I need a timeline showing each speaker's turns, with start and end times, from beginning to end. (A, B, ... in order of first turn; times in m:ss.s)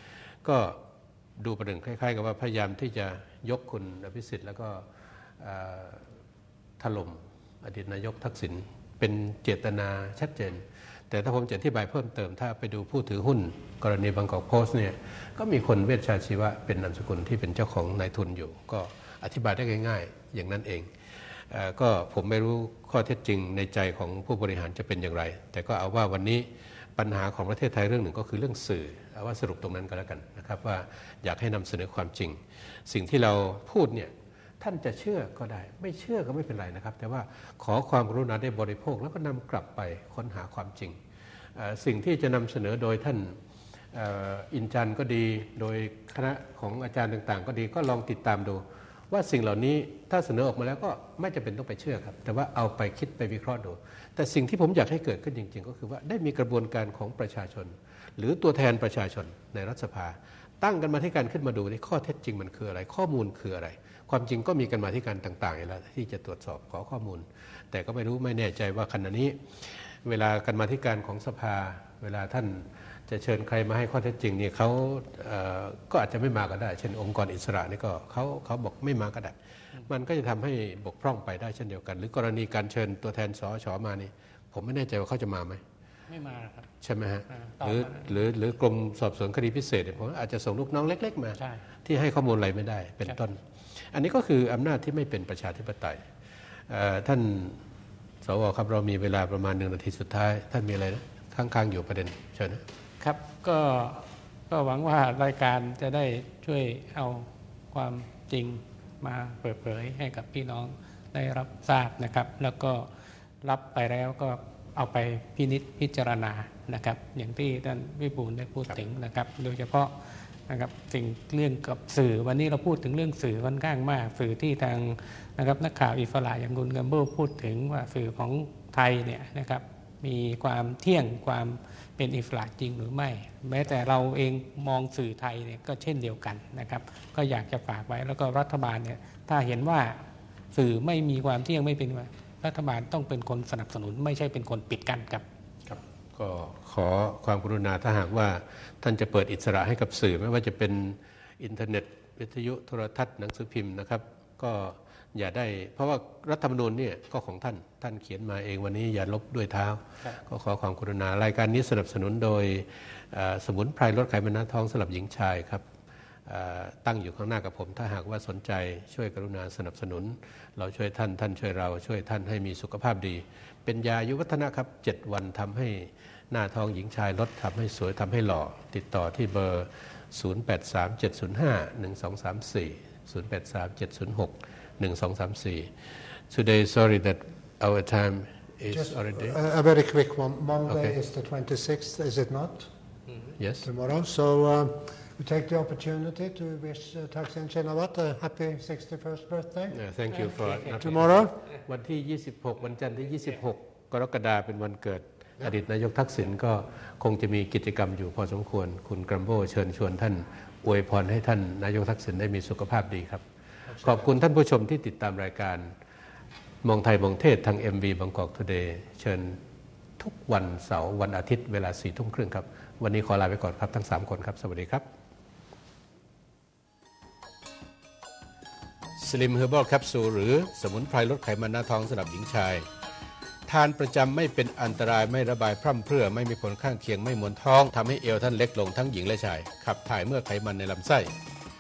0:00.4-0:00.8 A
0:01.4-0:04.9 A
0:05.4-0:06.1 A
0:06.8-0:41.0 A
0:41.6-0:43.4 A
0:43.9-1:25.6 A
1:26.1-1:26.7 B
1:26.8-1:36.1 A
1:27.3-1:28.2 B
1:36.7-1:37.6 A
1:38.2-1:42.6 A
1:43.0-1:52.9 B
1:53.4-1:59.9 B
2:00.5-2:20.0 B
2:20.5-2:25.2 B
2:25.7-2:45.6 A
2:46.3-3:05.7 A
3:06.3-3:09.4 A
3:08.7-3:12.7 C
3:10.7-3:11.0 A
3:13.4-3:13.7 A
3:13.6-3:19.8 C
3:19.7-3:35.7 A
3:20.6-3:21.3 C
3:33.7-3:34.0 C
3:36.6-3:39.4 A
3:40.0-3:44.9 A
3:49.0-3:52.7 A
3:53.5-4:01.1 A